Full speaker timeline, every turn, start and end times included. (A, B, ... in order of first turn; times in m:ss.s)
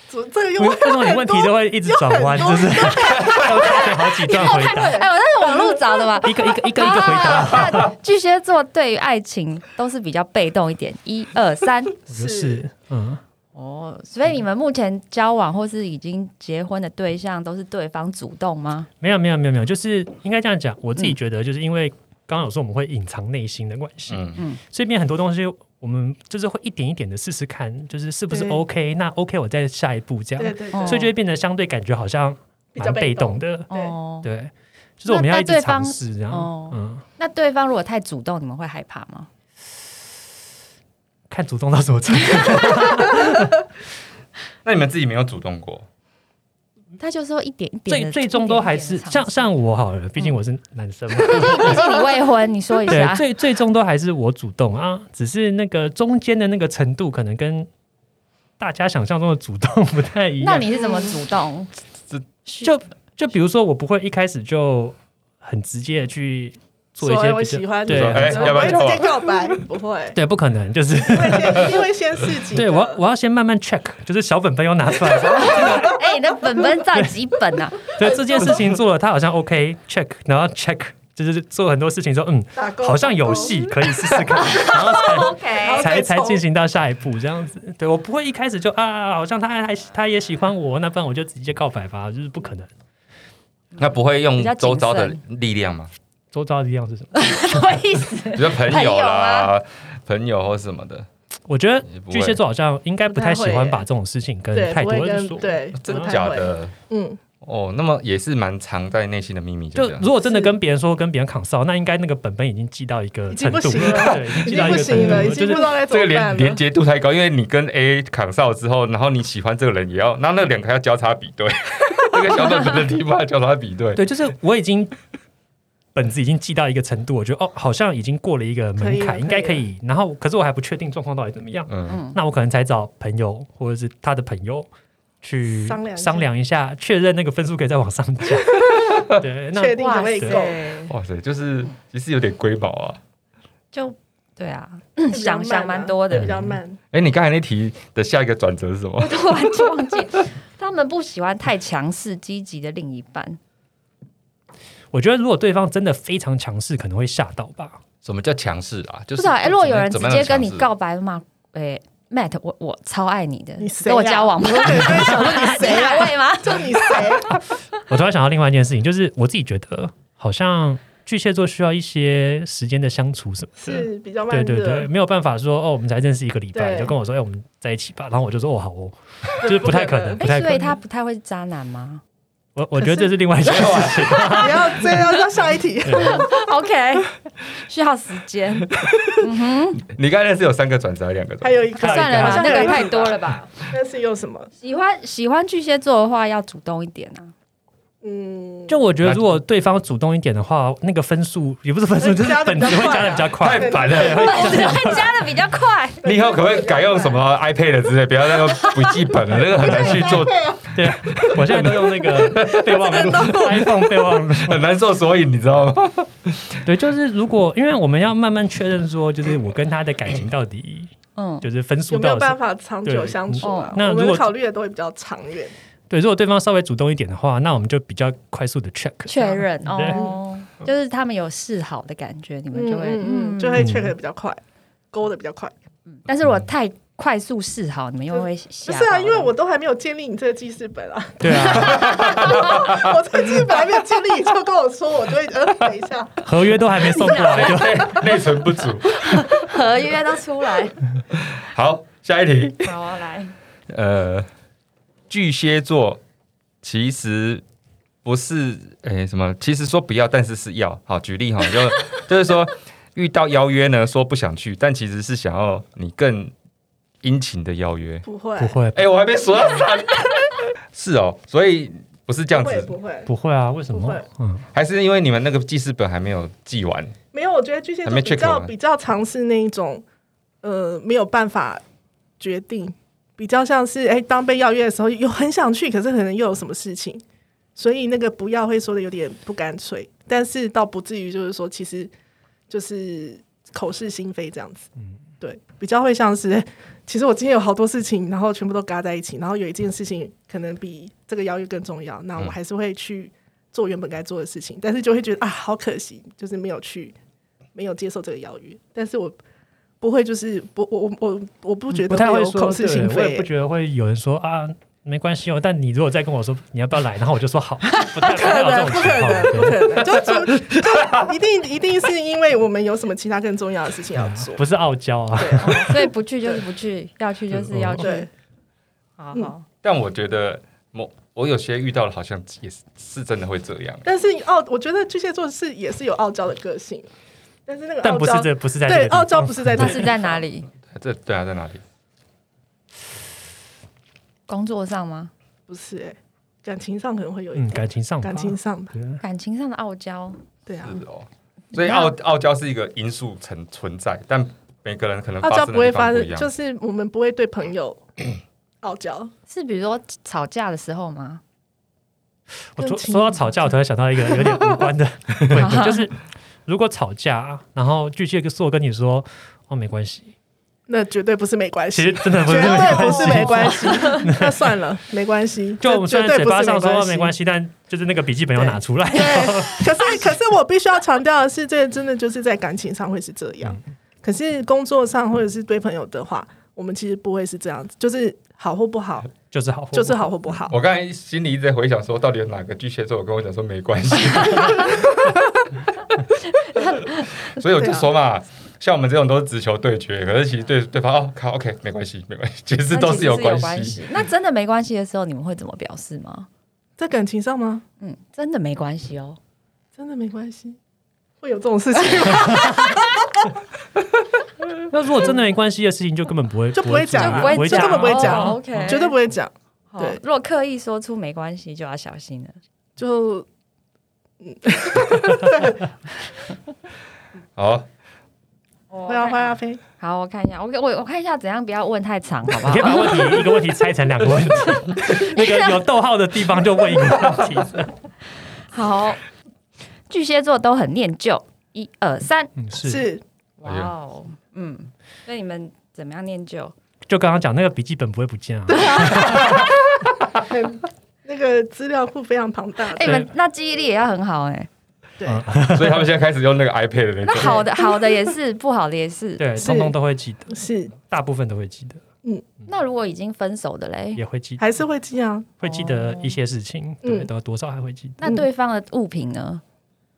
0:00.1-0:06.3 A
0:00.6-0:05.0 B
0:03.6-0:12.0 C
0:06.2-0:07.9 B
0:12.1-0:13.2 B
0:12.1-0:12.6 A
0:13.6-0:18.9 C
0:19.0-0:33.7 B
0:24.1-0:24.4 D
0:28.3-0:28.6 A
0:30.4-0:31.1 A
0:30.7-0:31.1 C
0:32.8-0:34.0 A
0:33.7-0:34.3 C
0:34.2-0:37.0 B
0:35.1-0:39.3 C
0:41.3-0:43.7 B
0:44.6-0:45.9 D
0:47.0-0:49.4 C
0:47.9-0:51.9 B
0:51.2-0:53.3 C
0:52.9-0:57.7 B
0:58.6-1:00.7 B
1:00.4-1:01.7 C
1:00.8-1:01.2 A
1:02.5-1:02.7 C
1:02.6-1:08.9 B
1:07.0-1:10.2 A
1:07.9-1:09.6 D
1:10.1-1:11.8 B
1:11.0-1:13.0 A
1:12.5-1:16.0 B
1:15.2-1:16.0 A
1:15.4-1:18.0 C
1:17.9-1:32.7 B
1:18.0-1:18.7 A
1:22.6-1:23.7 A
1:24.4-1:25.9 C
1:25.6-1:26.4 A
1:33.8-1:35.9 D
1:34.4-1:35.2 C
1:36.3-1:37.8 B
1:37.2-1:39.5 C
1:38.3-1:41.1 D
1:41.5-1:46.1 B
1:41.9-1:42.4 D
1:43.1-1:43.8 A
1:44.5-1:47.2 A
1:45.8-1:46.7 D
1:47.4-1:50.1 D
1:49.8-1:55.7 B
1:50.2-1:50.5 A
1:53.3-1:56.6 A
1:53.9-2:04.0 D
2:04.0-2:05.0 B
2:06.0-2:14.7 B
2:08.8-2:09.6 A
2:11.7-2:12.0 D
2:11.9-2:12.2 C
2:15.2-2:20.4 B
2:15.5-2:16.3 A
2:18.3-2:20.6 A
2:19.7-2:21.0 C
2:20.9-2:23.0 D
2:23.7-2:26.4 C
2:25.1-2:26.8 A
2:26.1-2:26.6 B
2:26.9-2:30.2 D
2:29.0-2:33.4 C
2:34.9-2:37.8 B
2:38.0-2:40.7 D
2:39.2-2:47.1 C
2:43.6-2:47.4 A
2:44.7-2:45.5 B
2:47.9-3:00.8 B
2:53.6-2:54.9 A
2:56.5-2:56.9 A
2:59.4-3:00.2 A
3:00.2-3:02.0 C
3:02.6-3:05.2 B
3:02.8-3:03.1 A
3:03.4-3:04.5 D
3:04.3-3:06.3 A
3:05.8-3:06.2 B
3:06.0-3:08.7 C
3:08.7-3:11.6 D
3:09.2-3:09.8 C
3:11.4-3:14.5 A
3:11.8-3:12.9 B
3:11.8-3:13.4 C
3:14.6-3:17.3 C
3:18.0-3:18.8 A
3:18.7-3:25.1 B
3:19.0-3:19.4 D
3:22.0-3:24.6 A
3:23.4-3:24.4 D
3:24.0-3:26.0 C
3:26.0-3:27.2 A
3:26.0-3:33.5 D
3:28.5-3:29.0 C
3:29.6-3:30.6 A
3:30.7-3:34.7 B
3:32.2-3:33.9 A
3:34.3-3:36.6 D
3:36.6-3:44.3 B
3:41.2-3:41.5 C
3:41.9-3:45.5 A
3:43.4-3:43.8 C
3:45.9-3:50.0 B
3:49.1-3:53.7 C
3:49.9-3:50.2 A
3:52.5-3:54.4 A
3:53.6-3:54.0 B
3:54.9-3:55.5 A
3:55.9-3:59.3 C
3:58.1-4:06.3 A
4:01.2-4:01.9 B
4:01.5-4:03.6 D
4:06.2-4:08.0 B
4:07.0-4:08.0 A
4:07.1-4:09.4 D
4:09.0-4:10.8 C
4:11.1-4:12.8 D
4:12.6-4:13.3 C
4:13.7-4:14.3 D
4:15.1-4:16.0 D
4:16.6-4:17.4 D
4:18.0-4:26.3 D
4:27.0-4:28.0 D
4:28.0-4:28.6 A
4:28.4-4:28.8 B
4:28.7-4:32.8 D
4:32.3-4:33.1 A
4:33.1-4:34.4 B
4:33.7-4:34.0 A
4:34.5-4:37.0 D
4:37.1-4:39.8 A
4:37.8-4:38.5 D
4:40.4-4:41.6 A
4:42.2-4:47.0 A
4:47.6-4:51.9 A
4:52.5-4:54.7 A
4:55.2-5:07.0 A
5:07.6-5:09.2 A
5:09.8-5:13.3 A
5:11.7-5:19.9 B
5:18.0-5:24.4 A
5:19.9-5:21.1 D
5:24.0-5:25.9 B
5:25.2-5:26.4 A
5:25.4-5:28.1 C
5:27.3-5:27.9 B
5:27.8-5:28.1 A
5:29.0-5:29.4 C
5:29.6-5:33.9 D
5:33.8-5:36.9 A
5:37.5-5:40.2 A
5:37.8-5:39.9 B
5:39.6-5:40.5 C
5:40.7-5:41.6 D
5:44.3-5:45.1 C
5:45.5-5:48.7 A
5:47.3-5:49.0 B
5:49.0-5:50.2 C
5:50.5-5:50.8 A
5:50.6-5:56.3 D
5:51.6-5:51.9 C
5:55.2-5:57.8 A
5:58.6-5:59.1 A
5:59.3-6:01.2 C
6:02.6-6:10.1 B
6:02.6-6:03.5 A
6:04.1-6:04.5 A
6:05.3-6:05.9 C
6:10.7-6:17.1 A
6:11.7-6:14.6 B
6:15.6-6:20.2 B
6:18.4-6:29.1 A
6:29.3-6:30.1 B
6:29.7-6:30.6 A
6:30.5-6:35.0 D
6:34.7-6:35.2 A
6:36.6-6:36.8 C
6:36.6-6:43.8 D
6:37.5-6:37.9 A
6:42.7-6:46.3 C
6:46.8-6:47.6 A
6:47.8-6:49.2 C
6:49.8-6:50.6 A
6:51.2-6:53.2 A
6:54.6-6:58.8 B
6:56.6-7:00.0 A
6:57.0-6:58.9 C
6:59.7-7:02.4 C
7:02.8-7:03.3 A
7:04.2-7:05.6 A
7:07.4-7:07.7 D
7:08.7-7:13.1 C
7:08.9-7:09.6 A
7:12.4-7:17.7 B
7:14.7-7:15.6 C
7:18.5-7:19.0 C
7:19.9-7:22.3 C
7:22.4-7:22.9 B
7:22.6-7:23.0 A
7:23.4-7:26.5 C
7:23.4-7:23.7 D
7:26.9-7:29.4 B
7:28.5-7:33.0 A
7:32.7-7:34.5 C
7:35.0-7:35.9 B
7:35.5-7:37.5 D
7:37.1-7:39.3 C
7:37.2-7:37.9 A
7:39.2-7:41.8 B
7:39.4-7:39.7 A
7:40.3-7:40.7 A
7:42.5-7:44.0 C
7:44.0-7:44.4 B
7:44.4-7:45.3 A
7:45.4-7:48.0 B
7:45.4-7:46.2 C
7:46.8-7:47.1 A
7:48.0-7:49.4 C